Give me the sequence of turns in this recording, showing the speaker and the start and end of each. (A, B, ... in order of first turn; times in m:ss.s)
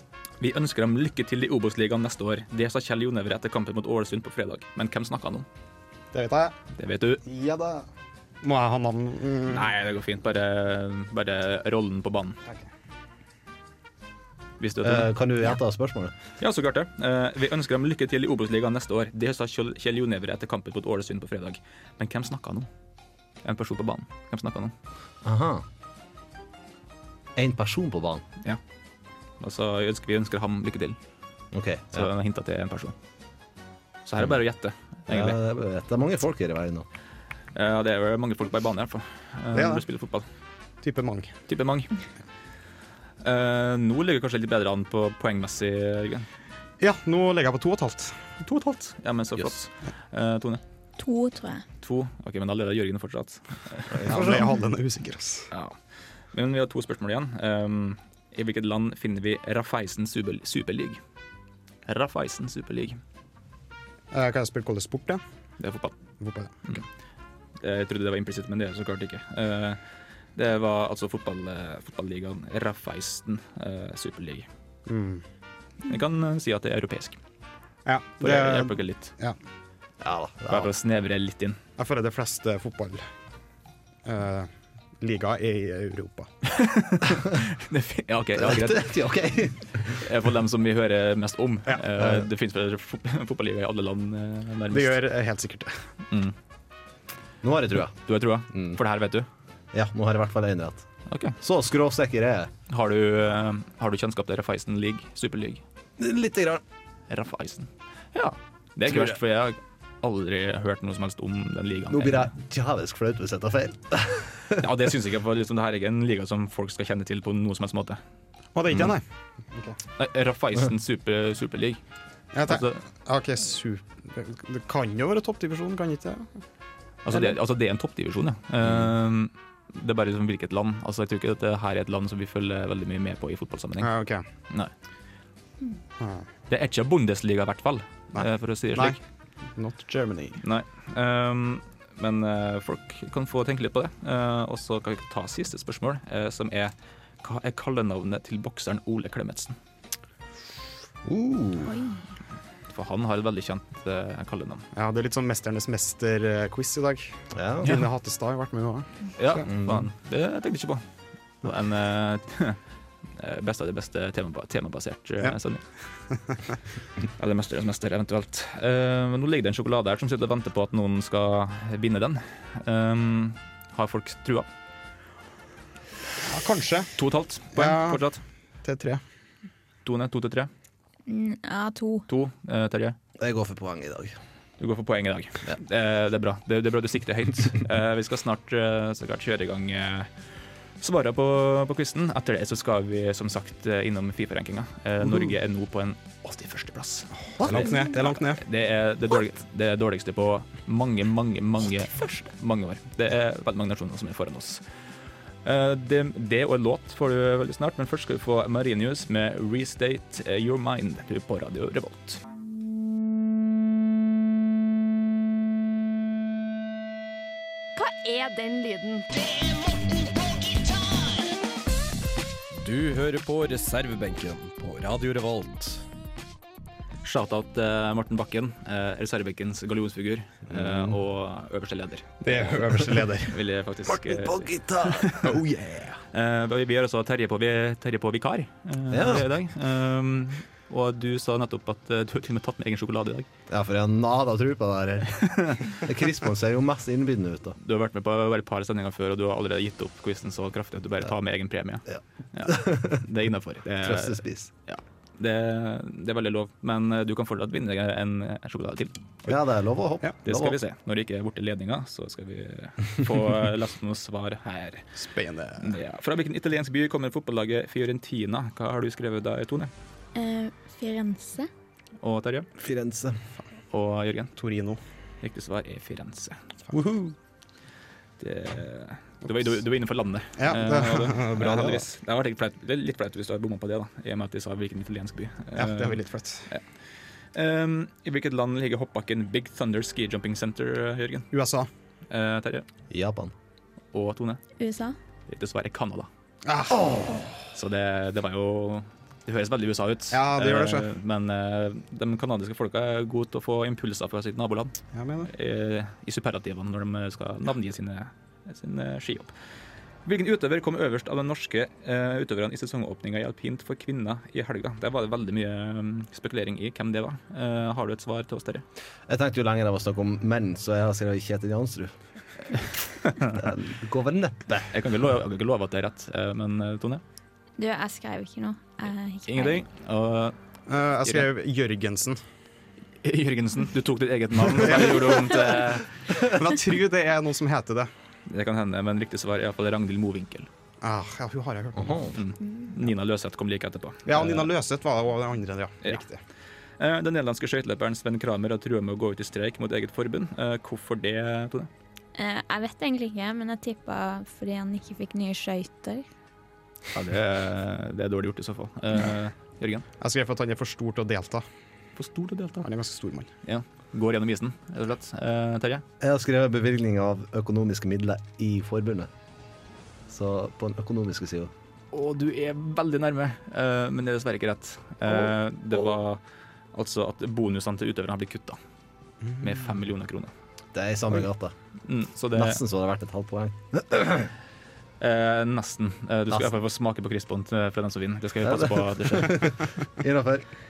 0:00.4-0:05.5 A
0:06.1-0:06.5 B
0:06.7-0:07.2 A
0:07.2-0:07.9 B
0:08.4-0:09.7 B
0:09.5-0:12.4 A
0:14.6-0:15.1 A
0:14.8-0:16.1 C
0:16.4-0:22.7 A
0:23.4-0:24.7 A
0:25.2-0:25.6 C
0:27.4-0:28.2 C
0:29.4-0:31.0 A
0:31.5-0:32.1 C
0:31.9-0:32.9 A
0:34.0-0:35.4 A
0:35.1-0:36.8 C
0:37.5-0:40.3 A
0:39.5-0:39.8 B
0:40.8-0:41.3 B
0:41.5-0:41.9 A
0:43.2-0:46.3 A
0:46.8-0:48.2 B
0:48.4-0:50.6 A
0:51.0-0:51.6 D
0:51.8-0:54.3 A
0:54.0-0:55.5 B
0:54.1-0:54.4 C
0:55.5-0:55.8 A
0:56.3-1:01.0 A
1:01.9-1:03.0 A
1:04.1-1:05.2 B
1:05.6-1:06.0 A
1:06.2-1:06.8 B
1:07.6-1:09.8 A
1:10.4-1:14.5 A
1:14.8-1:15.2 B
1:15.8-1:17.2 A
1:17.8-1:19.4 B
1:18.2-1:19.1 A
1:20.0-1:20.7 C
1:20.5-1:21.6 A
1:21.8-1:23.0 B
1:24.0-1:26.3 B
1:26.4-1:29.1 A
1:28.4-1:30.0 C
1:29.9-1:35.0 A
1:32.0-1:32.2 C
1:34.7-1:35.8 B
1:36.1-1:36.3 A
1:37.4-1:38.8 C
1:38.0-1:39.3 A
1:39.7-1:40.8 C
1:41.1-1:41.4 A
1:41.4-1:42.5 C
1:42.7-1:45.6 A
1:46.0-1:46.6 C
1:47.1-1:52.3 A
1:48.9-1:49.2 C
1:51.9-1:54.6 C
1:54.6-1:58.0 A
1:58.5-1:59.8 B
2:00.0-2:01.8 A
2:02.3-2:06.3 B
2:02.4-2:02.8 A
2:07.0-2:13.9 A
2:08.6-2:08.9 C
2:13.8-2:14.2 B
2:16.0-2:16.2 B
2:16.5-2:19.0 A
2:18.1-2:19.0 B
2:19.5-2:20.4 B
2:20.4-2:29.6 A
2:31.0-2:31.8 C
2:32.7-2:34.6 A
2:34.7-2:39.4 B
2:37.4-2:37.7 C
2:39.2-2:40.8 A
2:39.4-2:39.9 C
2:41.4-2:42.6 A
2:43.2-2:45.6 A
2:47.2-2:54.5 A
2:56.2-2:56.9 B
2:57.0-2:58.2 A
2:57.5-2:58.0 B
2:58.6-2:59.0 B
2:59.8-3:00.5 A
3:01.1-3:02.0 D
3:02.1-3:03.0 A
3:03.2-3:04.2 C
3:04.6-3:10.1 A
3:10.8-3:24.6 A
3:17.3-3:18.4 B
3:25.4-3:32.2 A
3:42.5-3:45.8 E
3:47.0-3:55.4 A
3:50.5-3:51.0 C
3:52.2-3:53.4 B
3:53.9-3:55.6 C
3:56.1-4:03.3 A
3:58.9-3:59.3 C
4:03.5-4:07.6 C
4:05.2-4:05.6 A
4:07.6-4:18.9 A
4:11.9-4:13.0 C
4:13.8-4:14.5 C
4:19.2-4:20.6 C
4:20.2-4:24.9 A
4:25.0-4:25.8 B
4:25.6-4:29.7 A
4:30.1-4:31.5 D
4:32.0-4:32.5 A
4:32.6-4:33.2 C
4:33.7-4:34.3 A
4:34.4-4:34.8 B
4:35.2-4:36.4 A
4:36.7-4:37.2 B
4:38.2-4:46.6 A
4:40.4-4:41.8 B
4:45.5-4:46.5 B
4:47.3-4:51.3 A
4:51.3-4:51.7 B
4:52.1-4:52.6 A
4:52.9-4:53.3 C
4:53.9-4:54.4 A
4:54.6-4:55.0 D
4:55.3-4:56.1 A
4:56.4-4:57.1 B
4:56.8-4:57.2 C
4:57.5-5:09.3 A
5:00.1-5:00.9 B
5:04.9-5:05.3 B
5:10.0-5:18.6 A
5:19.1-5:21.9 C
5:23.0-5:23.4 A
5:23.2-5:24.7 C
5:24.7-5:27.0 A
5:27.6-5:29.6 D
5:29.3-5:30.4 A
5:30.7-5:32.2 B
5:33.0-5:35.9 A
5:34.6-5:35.4 B
5:36.1-5:37.9 B
5:38.3-5:40.5 A
5:40.8-5:42.1 B
5:41.8-5:42.1 C
5:42.1-5:44.5 A
5:44.0-5:46.2 B
5:46.8-5:51.7 A
5:52.2-5:56.0 D
5:56.9-5:59.8 A
6:00.0-6:01.4 B
6:02.0-6:02.7 A
6:02.6-6:03.3 B
6:03.4-6:05.8 A
6:06.0-6:09.1 C
6:10.1-6:11.5 C
6:11.9-6:16.2 A
6:16.7-6:18.6 A
6:19.2-6:19.5 B
6:19.4-6:20.3 A
6:20.7-6:21.5 C
6:21.8-6:22.6 A
6:22.3-6:24.3 C
6:25.0-6:29.5 A
6:28.4-6:30.4 C